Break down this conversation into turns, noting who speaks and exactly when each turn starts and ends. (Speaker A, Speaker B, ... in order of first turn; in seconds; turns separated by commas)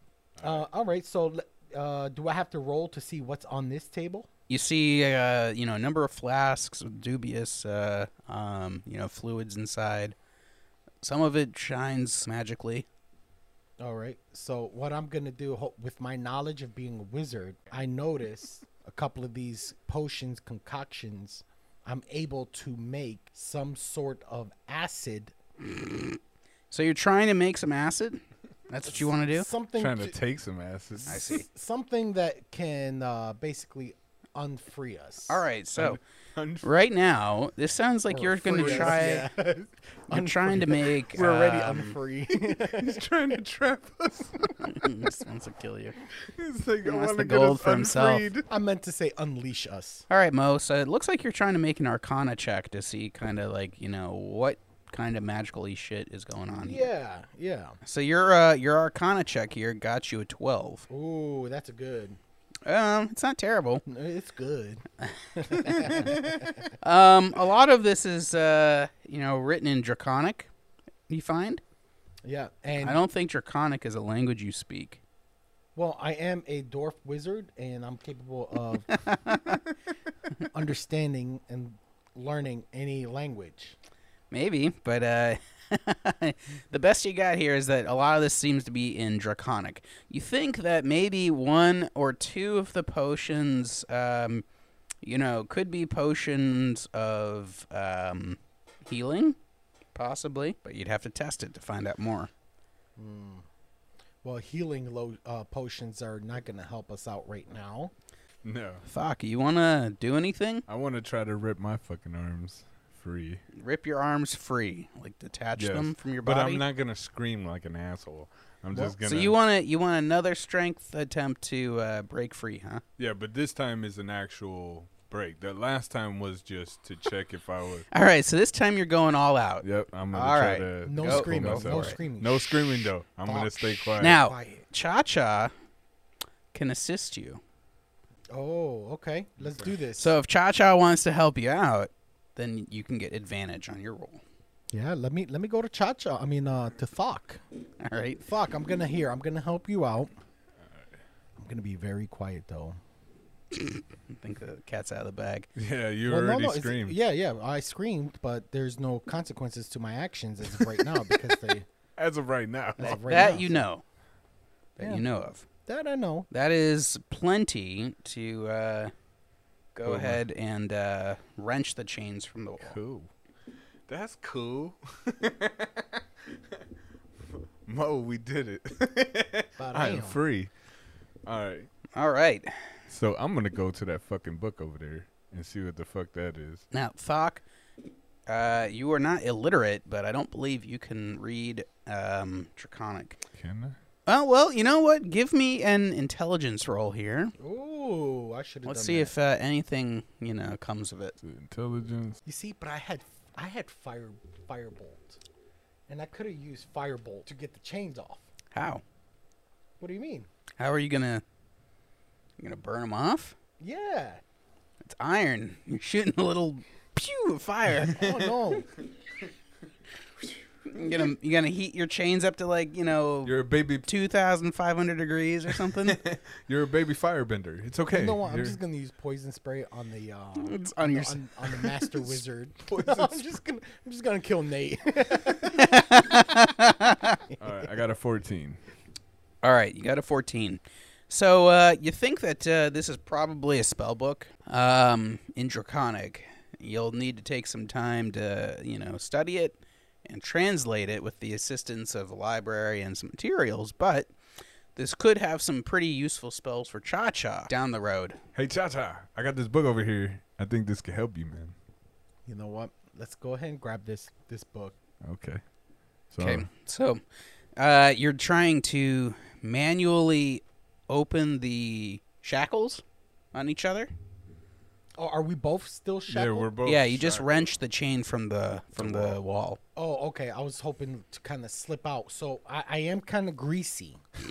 Speaker A: 0.4-0.6, Speaker B: 0.4-4.3, Speaker C: 4.5-10.1, Speaker C: 11.0-12.8, Speaker B: 13.8-25.3, Speaker C: 25.8-26.0, Speaker C: 26.7-29.5, Speaker B: 29.1-30.2, Speaker A: 29.8-31.3, Speaker B: 31.1-35.4, Speaker C: 31.1-31.4, Speaker C: 35.3-36.0, Speaker A: 35.8-36.7, Speaker C: 36.6-39.3, Speaker B: 38.1-43.1, Speaker A: 38.6-39.0, Speaker C: 40.1-42.0, Speaker A: 42.3-44.5, Speaker C: 44.6-46.0, Speaker A: 46.3-48.5, Speaker C: 46.8-48.2, Speaker B: 48.5-50.1, Speaker C: 50.1-56.9, Speaker B: 56.6-57.8, Speaker C: 57.8-60.9, Speaker B: 60.9-62.2, Speaker C: 62.6-63.8, Speaker B: 63.9-66.7, Speaker C: 65.0-70.5, Speaker C: 71.1-71.6, Speaker B: 72.2-73.0, Speaker C: 72.8-75.0, Speaker B: 75.8-78.9, Speaker C: 78.9-79.6, Speaker B: 80.4-83.8, Speaker C: 84.3-94.4, Speaker C: 95.0-99.3, Speaker C: 100.0-102.3, Speaker B: 103.0-103.5, Speaker B: 104.2-107.9, Speaker A: 108.4-108.8, Speaker C: 108.9-110.7, Speaker A: 110.7-113.4, Speaker C: 113.5-116.6, Speaker A: 115.5-119.4, Speaker C: 119.0-122.8, Speaker A: 123.0-127.9, Speaker C: 127.9-132.0, Speaker A: 129.6-134.2, Speaker B: 130.8-134.6, Speaker C: 134.0-135.5, Speaker C: 136.5-137.4, Speaker B: 138.3-140.2, Speaker C: 140.0-144.2, Speaker B: 144.7-147.4, Speaker C: 147.8-148.2, Speaker B: 148.2-150.1, Speaker B: 151.4-152.8, Speaker C: 153.5-155.5, Speaker A: 155.6-157.0, Speaker B: 156.0-161.7, Speaker A: 162.0-163.1, Speaker B: 162.8-163.7, Speaker C: 162.8-163.8, Speaker C: 164.8-165.4, Speaker B: 164.8-165.0, Speaker B: 165.7-166.3, Speaker C: 166.3-168.9, Speaker C: 169.7-172.8, Speaker A: 169.8-170.2, Speaker A: 172.6-173.1, Speaker A: 173.9-176.0, Speaker A: 177.3-180.5, Speaker B: 179.6-180.2, Speaker A: 181.3-181.7, Speaker C: 181.9-182.5, Speaker A: 182.9-186.7, Speaker C: 186.7-187.4, Speaker C: 188.3-193.2, Speaker A: 193.3-193.8, Speaker C: 194.1-197.3, Speaker B: 197.4-199.1, Speaker C: 198.7-201.2, Speaker A: 201.2-202.2, Speaker B: 202.2-205.2, Speaker B: 205.9-208.3, Speaker C: 208.5-208.8, Speaker B: 209.8-210.3, Speaker C: 210.6-211.2, Speaker C: 212.4-213.3, Speaker B: 213.6-214.2, Speaker C: 214.8-218.1, Speaker B: 217.8-218.7, Speaker C: 220.7-226.0, Speaker A: 223.2-223.9, Speaker A: 225.6-228.6, Speaker B: 227.9-235.9, Speaker C: 230.4-231.7, Speaker A: 232.6-233.2, Speaker C: 235.5-237.2, Speaker A: 237.4-238.6, Speaker C: 239.4-254.1, Speaker C: 254.8-258.2, Speaker A: 258.3-261.6, Speaker B: 262.2-264.8, Speaker A: 265.0-265.4, Speaker A: 266.1-266.5, Speaker C: 266.2-267.0, Speaker C: 267.6-273.9, Speaker B: 275.0-276.5, Speaker A: 276.1-277.5, Speaker C: 276.6-279.6, Speaker A: 278.8-279.2, Speaker B: 279.8-284.0